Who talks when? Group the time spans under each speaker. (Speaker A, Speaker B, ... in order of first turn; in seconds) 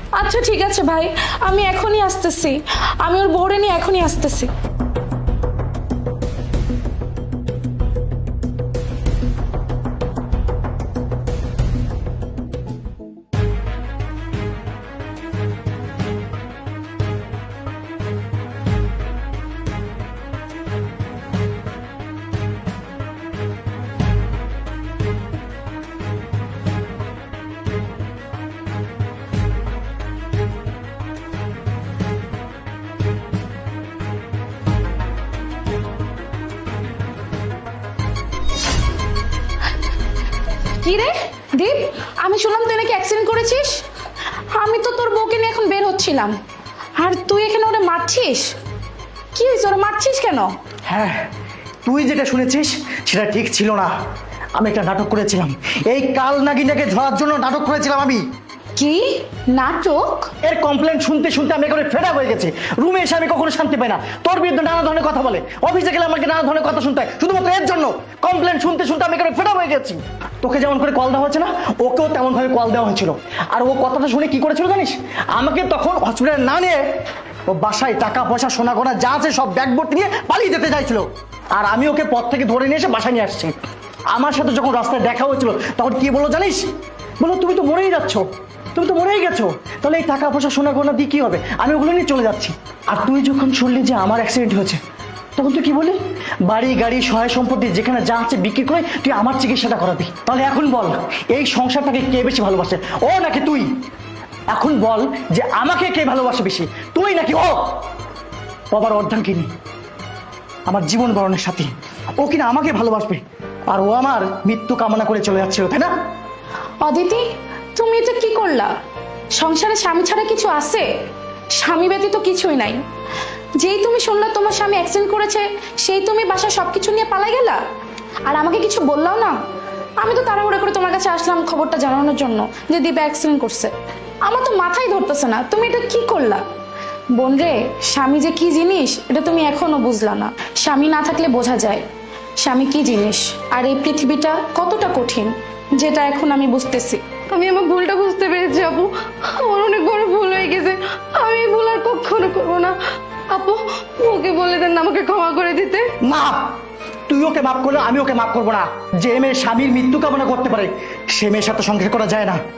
Speaker A: 0.2-4.5, 40.8-43.8, 44.5-46.4, 47.0-48.5, 49.3-50.5, 58.8-60.3, 116.8-117.2, 117.8-118.7, 119.4-120.9, 121.5-122.8, 123.6-127.6, 128.2-129.4, 130.0-133.7, 134.2-136.4, 137.2-141.8, 142.4-147.0
Speaker B: 50.9-51.3, 51.9-53.9, 54.6-58.2, 60.4-76.8, 77.5-83.5, 84.1-86.7, 87.2-94.8, 95.4-103.7, 104.5-107.9, 108.7-109.5, 110.7-115.9, 156.0-156.6, 157.1-162.4
Speaker C: 147.3-155.8